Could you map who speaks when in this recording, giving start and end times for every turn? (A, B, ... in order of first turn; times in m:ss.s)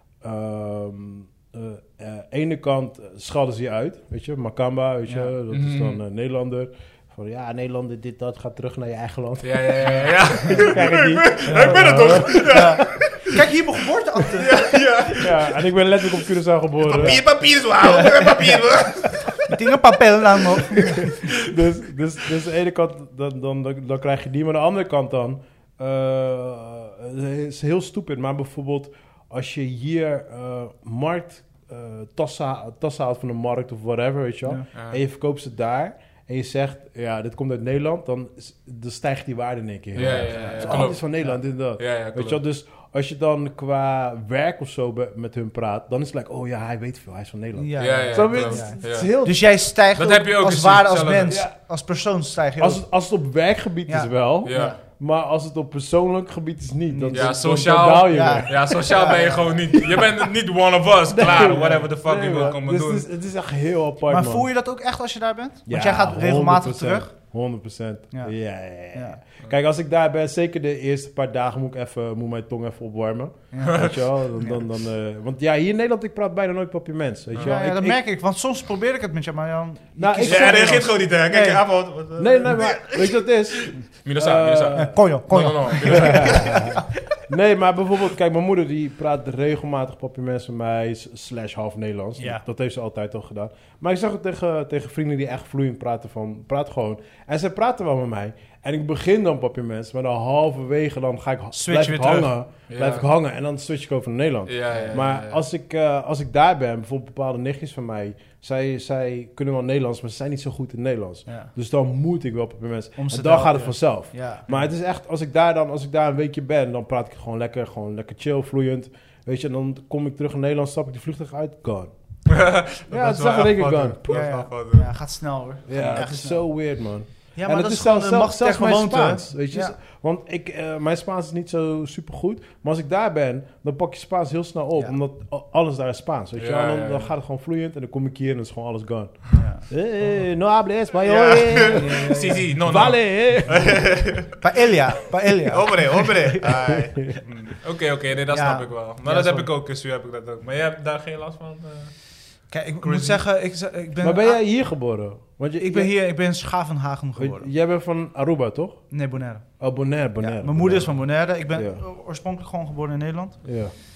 0:00.2-0:12.8 A
0:05.0-0:05.3 B
0:05.5-0:06.0 C
0:09.4-0:13.4 C
0:11.4-0:14.9 B
0:14.4-0:16.2 C
0:15.1-0:17.3 A
0:16.8-0:19.6 C
0:17.8-0:18.6 B
0:19.4-0:21.1 B
0:20.8-0:49.4 A
0:21.3-0:21.6 C
0:34.7-0:35.0 C
0:39.9-0:41.2 C
0:40.0-0:41.4 B
0:41.8-0:42.4 C
0:47.5-0:52.8 B
0:47.8-0:49.2 C
0:49.9-0:51.4 C
0:51.3-0:51.5 A
0:52.6-0:59.2 A
0:53.9-0:54.8 B
0:54.4-0:54.8 C
0:56.9-0:57.4 B
0:57.1-1:03.0 C
0:58.1-0:59.9 B
0:59.8-1:00.2 A
1:01.1-1:04.5 A
1:01.3-1:01.9 B
1:04.1-1:07.1 B
1:05.6-1:18.0 A
1:08.9-1:09.2 B
1:13.5-1:14.6 B
1:13.6-1:14.0 C
1:17.4-1:21.6 B
1:20.0-1:20.9 A
1:20.2-1:26.8 C
1:22.2-1:25.0 A
1:24.7-1:26.8 B
1:25.8-2:01.9 A
1:32.2-1:32.4 B
1:41.5-1:42.3 B
1:42.7-1:43.0 C
1:44.5-1:45.4 C
1:53.0-1:54.5 B
2:02.3-2:04.9 C
2:02.9-2:04.1 A
2:04.1-2:06.5 B
2:05.7-2:24.0 A
2:05.8-2:06.0 C
2:07.3-2:09.7 B
2:16.4-2:17.1 C
2:19.3-2:20.2 B
2:21.0-2:24.4 C
2:21.6-2:22.4 B
2:24.4-2:26.7 B
2:25.5-2:32.2 C
2:26.8-2:27.2 A
2:28.3-2:29.5 B
2:32.5-2:34.4 B
2:32.8-2:33.2 C
2:34.0-2:35.9 A
2:35.6-2:37.5 B
2:37.2-2:38.9 A
2:38.9-2:39.5 B
2:39.6-2:41.8 A
2:40.2-2:43.6 B
2:43.4-2:43.7 A